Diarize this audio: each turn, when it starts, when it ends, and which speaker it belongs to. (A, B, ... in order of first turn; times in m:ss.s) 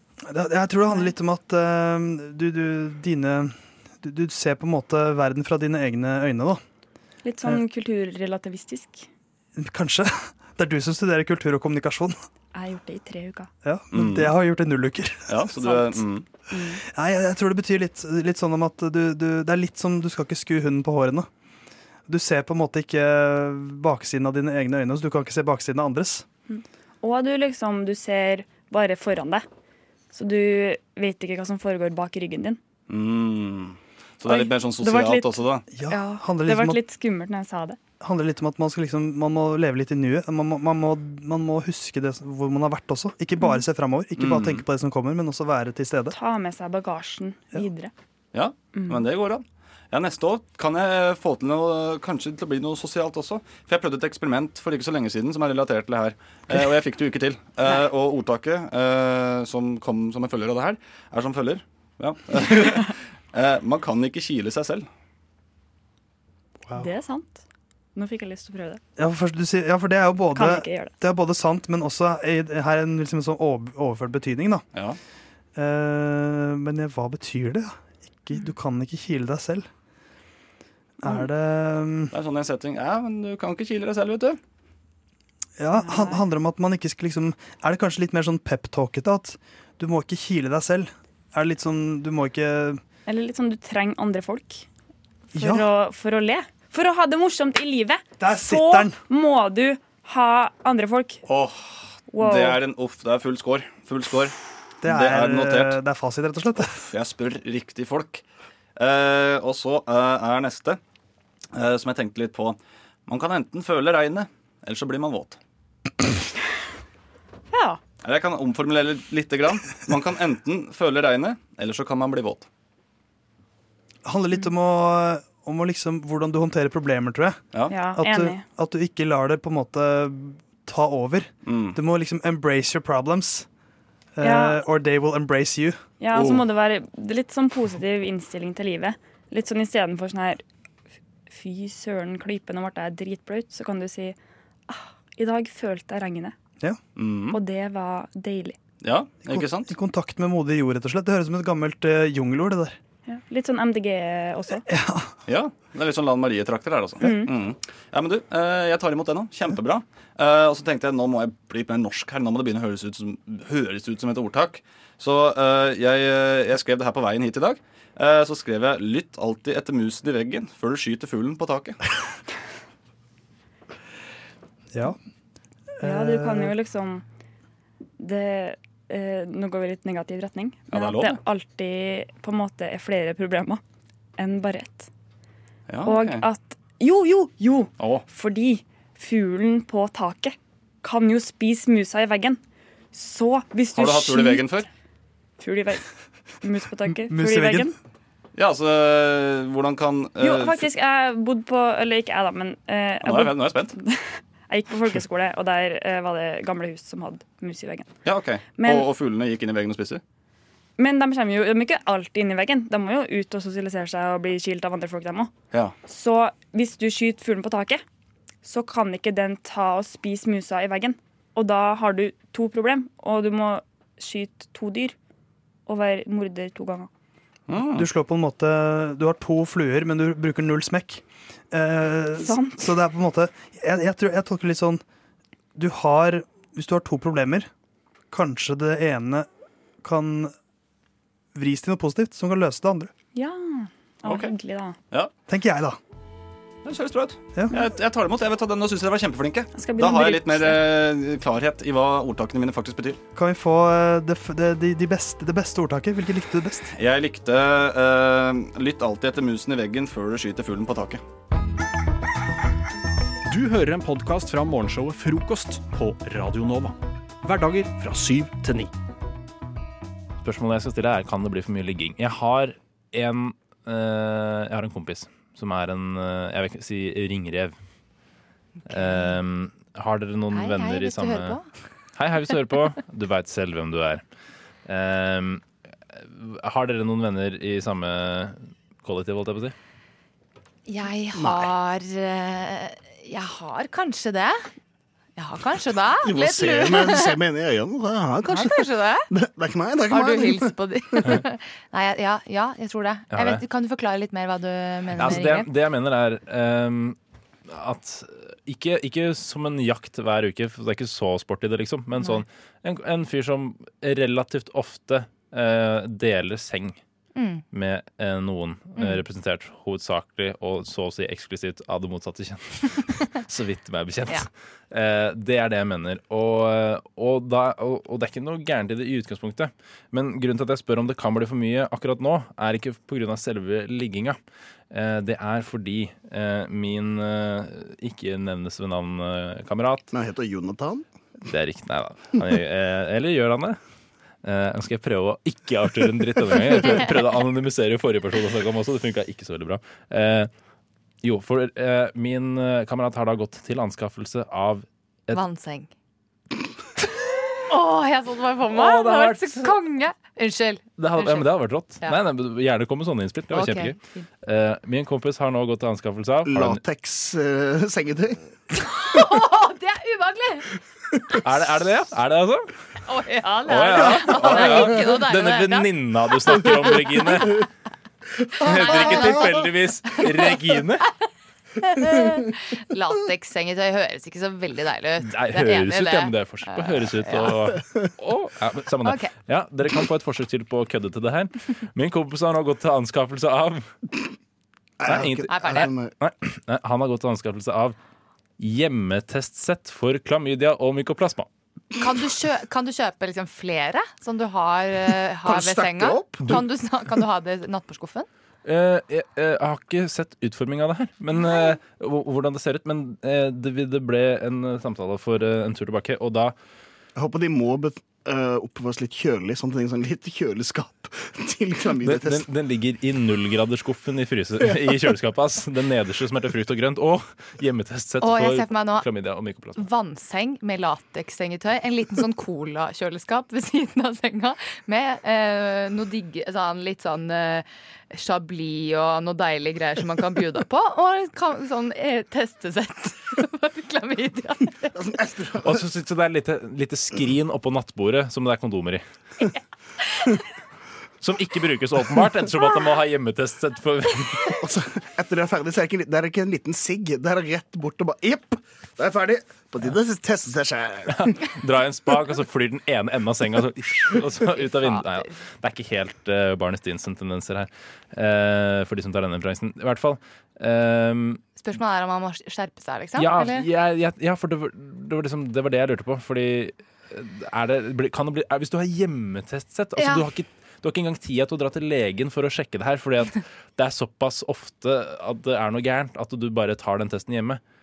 0:00.3-0:06.6 A
0:00.9-0:01.1 B
0:07.2-0:09.1 B
0:09.6-0:12.2 A
0:12.5-0:13.5 B
0:13.6-0:15.5 A
0:13.9-0:14.4 C
0:15.3-0:16.3 C
0:15.6-0:16.8 B
0:16.8-0:21.3 A
0:22.1-0:26.2 A
0:26.5-0:29.4 B
0:30.1-0:32.6 B
0:32.9-0:35.7 C
0:34.2-0:37.8 B
0:35.7-0:36.8 A
0:38.0-0:46.1 A
0:43.4-0:43.6 B
0:44.2-0:44.6 C
0:46.1-0:47.9 B
0:48.3-1:04.9 C
0:48.7-0:49.1 B
0:56.5-0:56.8 A
1:06.7-1:07.4 B
1:07.9-1:08.8 B
1:09.0-1:14.6 A
1:10.3-1:11.0 B
1:15.6-1:19.7 A
1:21.0-1:22.1 A
1:22.1-1:24.4 C
1:25.6-1:32.8 A
1:25.8-1:26.2 B
1:33.0-1:34.6 B
1:35.3-1:35.7 A
1:35.4-1:41.2 B
1:38.2-1:39.0 A
1:41.2-1:45.8 C
1:42.1-1:42.6 B
1:44.8-1:46.8 A
1:46.6-1:48.2 C
1:48.8-1:50.8 C
1:51.5-1:55.4 C
1:57.5-1:57.8 B
1:58.0-2:02.5 C
2:04.0-2:13.5 A
2:07.5-2:07.9 C
2:07.7-2:08.4 B
2:11.4-2:11.8 C
2:14.2-2:15.8 A
2:14.2-2:14.6 B
2:16.0-2:20.4 B
2:16.2-2:16.4 C
2:21.3-2:24.2 B
2:24.7-2:26.4 B
2:27.0-2:27.4 C
2:27.3-2:28.6 B
2:28.8-2:29.7 C
2:29.3-2:32.8 A
2:33.1-2:34.6 B
2:34.7-2:35.1 A
2:35.3-2:51.8 C
2:37.0-2:37.3 B
2:55.8-2:56.5 A
2:55.8-2:57.0 B
2:58.0-3:03.6 B
3:00.7-3:01.2 C
3:04.2-3:04.9 B
3:05.7-3:06.2 C
3:05.8-3:12.4 B
3:07.8-3:08.0 C
3:12.9-3:14.6 B
3:13.7-3:14.6 C
3:15.4-3:15.9 B
3:16.4-3:17.7 B
3:17.1-3:17.7 A
3:18.3-3:20.6 C
3:20.2-3:27.9 B
3:23.0-3:23.7 C
3:28.0-3:30.0 C
3:28.4-3:28.9 B
3:30.8-3:35.3 B
3:35.8-3:37.8 B
3:38.4-3:45.0 B
3:45.7-3:46.9 B
3:47.5-3:47.9 C
3:47.6-3:54.8 A
3:52.2-3:52.7 B
3:55.5-3:57.5 A
3:58.1-3:59.3 A
3:59.8-4:00.3 A
4:01.3-4:02.9 A
4:03.1-4:04.8 B
4:04.0-4:04.3 C
4:05.3-4:05.8 A
4:06.6-4:13.0 C
4:07.3-4:07.7 A
4:09.5-4:10.6 B
4:13.2-4:16.7 A
4:16.7-4:21.0 C
4:23.3-4:28.7 D
4:30.2-4:37.6 E
4:38.7-4:41.4 E
4:38.7-4:39.1 F
4:40.3-4:41.4 F
4:41.9-4:44.0 E
4:44.6-4:49.5 E
4:50.7-4:54.5 F
4:51.2-4:51.5 G
4:55.2-4:57.2 F
4:56.0-4:58.5 G
4:58.3-4:59.1 F
4:59.1-5:00.5 G
4:59.9-5:05.5 F
5:03.1-5:03.4 E
5:04.9-5:16.8 E
5:17.2-5:17.4 F
5:17.5-5:34.2 E
5:34.7-5:39.9 E
5:39.9-5:40.8 G
5:41.2-5:43.6 E
5:44.2-5:50.3 E
5:51.0-5:55.2 E
5:55.1-5:55.7 F
5:57.5-6:02.0 F
5:58.5-5:59.5 E
6:00.8-6:06.6 E
6:03.3-6:04.0 F
6:06.2-6:08.2 G
6:08.6-6:10.4 F
6:11.2-6:12.5 E
6:12.9-6:15.7 F
6:13.4-6:17.4 E
6:16.2-6:17.3 F
6:18.4-6:20.8 E
6:18.4-6:20.4 F
6:21.7-6:27.5 F
6:25.0-6:33.7 E
6:28.8-6:29.1 F
6:34.8-6:35.9 G
6:34.8-6:37.8 E
6:35.2-6:35.7 F
6:38.4-6:41.3 E
6:41.8-6:48.1 F
6:45.2-6:46.3 G
6:48.4-6:56.3 E
6:51.1-6:51.4 F
6:57.0-7:02.2 G
7:01.7-7:09.6 E
7:08.0-7:08.8 F
7:09.6-7:24.8 F
7:24.8-7:25.6 G
7:25.4-7:28.8 E
7:31.0-7:34.3 E
7:34.4-7:40.9 G
7:40.9-7:51.2 E
7:44.5-7:45.1 F
7:51.3-7:53.5 F
7:53.0-8:07.4 E
7:59.8-8:00.1 F